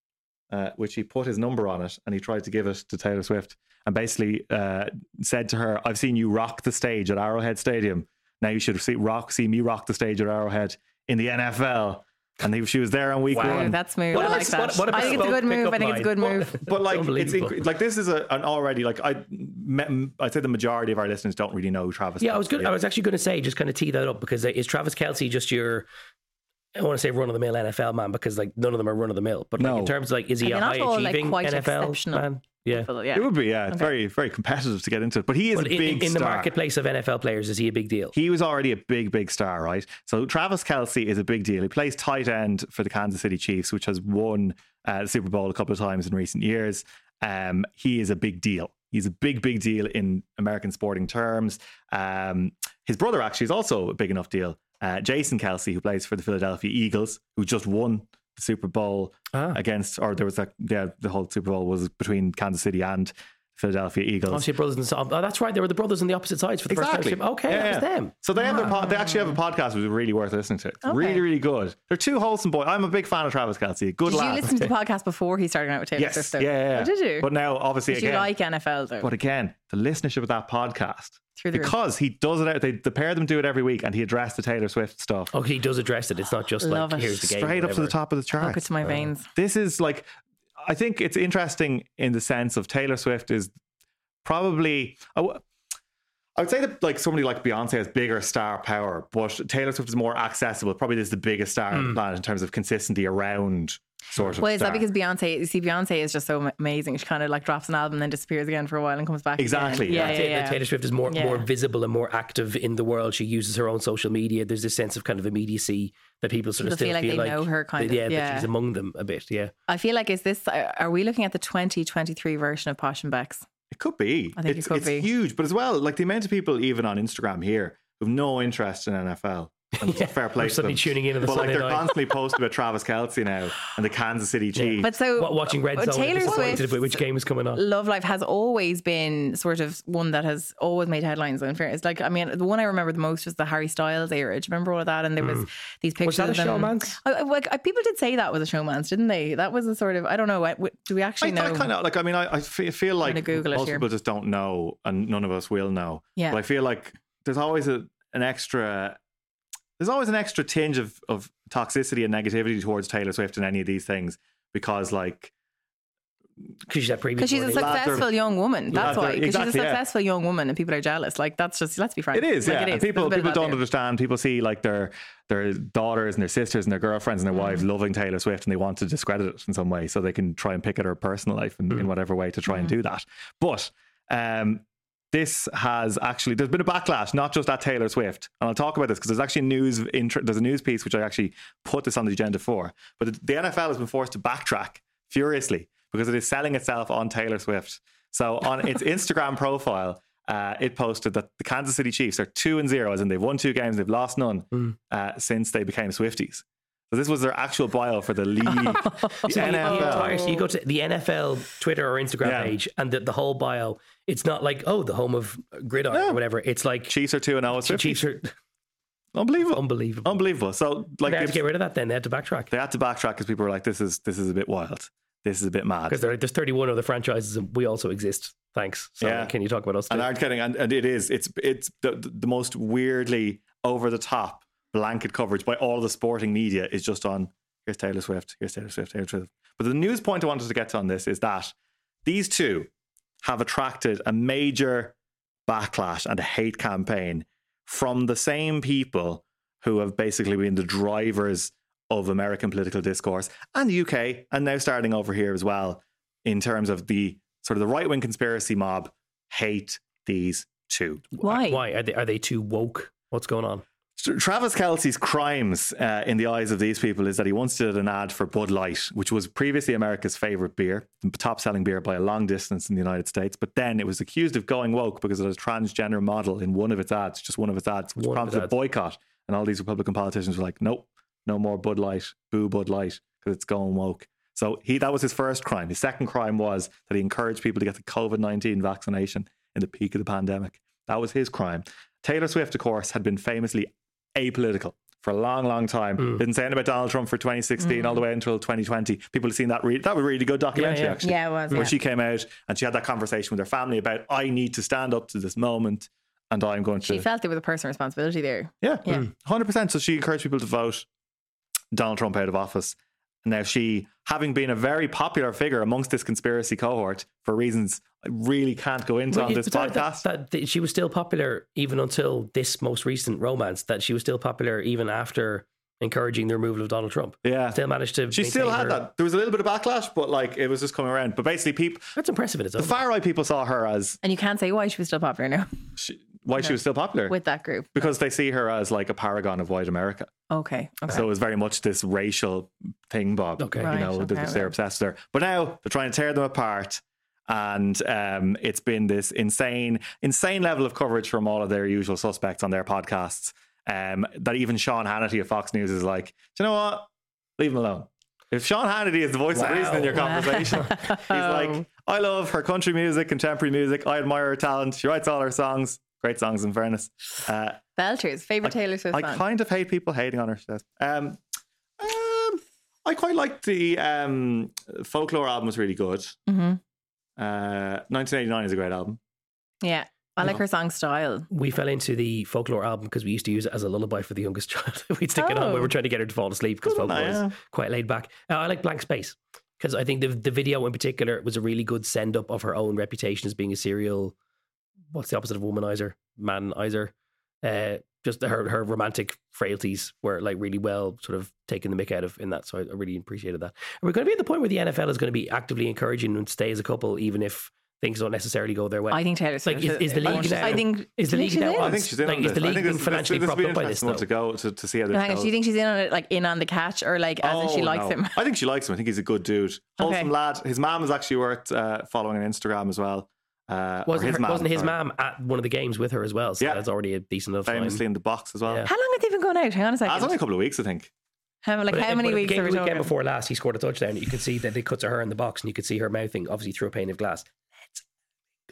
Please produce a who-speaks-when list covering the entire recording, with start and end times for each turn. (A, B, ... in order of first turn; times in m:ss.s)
0:00.5-0:15.4 A
0:13.3-0:16.6 B
0:13.3-0:17.6 C
0:16.6-0:22.8 A
0:22.2-0:25.9 C
0:26.8-0:32.9 C
0:29.6-0:29.9 A
0:30.4-0:33.9 B
0:33.1-0:36.5 A
0:35.6-0:38.1 C
0:38.1-1:04.5 A
0:59.3-0:59.6 C
1:04.3-1:08.1 C
1:06.7-1:14.7 A
1:08.4-1:09.4 B
1:10.8-1:11.2 B
1:14.1-1:17.3 B
1:16.0-1:18.3 A
1:17.9-1:19.1 B
1:19.0-1:25.3 A
1:21.4-1:21.7 B
1:25.3-1:28.0 C
1:26.6-1:27.2 B
1:27.2-1:28.6 A
1:28.4-1:29.3 B
1:29.3-1:30.1 A
1:30.6-1:33.5 A
1:34.2-1:35.4 A
1:36.4-1:44.8 A
1:41.7-1:42.0 C
1:44.4-1:51.5 B
1:49.4-1:50.2 A
1:49.9-1:59.5 C
1:56.6-1:58.5 B
1:59.7-2:03.4 B
2:03.7-2:14.9 A
2:04.4-2:05.1 B
2:09.8-2:12.2 C
2:14.6-2:17.6 C
2:14.8-2:17.0 B
2:16.3-2:16.7 A
2:17.6-2:31.7 B
2:26.0-2:27.0 C
2:31.2-2:39.0 A
2:33.0-2:33.9 B
2:39.8-2:45.3 A
2:46.7-2:48.0 C
2:47.2-2:53.6 B
2:47.5-2:48.1 A
2:48.7-2:49.8 A
2:48.7-2:49.1 C
2:52.1-3:30.2 A
2:57.3-2:57.6 B
3:28.5-3:30.4 B
3:29.3-3:37.0 C
3:32.2-3:32.6 A
3:35.9-3:36.2 A
3:36.9-3:38.0 A
3:37.6-3:38.3 C
3:39.2-3:41.4 A
3:39.5-3:40.2 C
3:41.0-3:42.5 C
3:42.5-3:46.1 A
3:45.9-3:50.1 C
3:49.0-3:49.3 A
3:49.9-4:01.5 A
4:02.0-4:02.7 A
4:03.2-4:05.0 A
4:05.5-4:21.0 A
4:21.1-4:23.6 C
4:21.2-4:21.6 B
4:24.0-5:07.1 A
4:38.0-4:38.5 C
4:57.6-4:58.0 B
5:00.6-5:01.0 C
5:01.0-5:01.7 B
5:06.8-5:09.1 B
5:08.6-5:10.9 A
5:11.7-5:20.0 A
5:19.1-5:28.8 C
5:27.2-5:27.6 A
5:28.1-5:32.0 A
5:32.0-5:32.8 C
5:32.6-5:34.0 A
5:34.0-5:35.5 B
5:35.8-5:37.2 A
5:36.4-5:37.9 B
5:37.8-5:40.1 A
5:40.3-5:41.1 B
5:40.9-6:07.6 A
5:43.4-5:43.7 C
5:43.6-5:44.5 B
5:59.3-6:00.7 C
6:00.0-6:01.6 B
6:07.8-6:09.2 B
6:08.4-6:11.2 A
6:11.8-6:16.2 A
6:16.3-6:16.6 B
6:17.2-6:19.0 A
6:19.6-6:21.3 B
6:21.3-6:34.2 C
6:25.2-6:25.7 B
6:26.6-6:27.3 A
6:34.9-6:54.1 C
6:48.9-6:51.8 B
6:50.0-6:50.6 A
6:51.6-6:55.3 A
6:54.9-6:58.1 B
6:57.2-7:04.8 A
6:59.8-7:00.1 B
7:03.9-7:07.8 C
7:07.5-7:08.7 A
7:08.6-7:10.2 B
7:09.8-7:10.9 A
7:11.4-7:12.9 B
7:11.7-7:17.8 C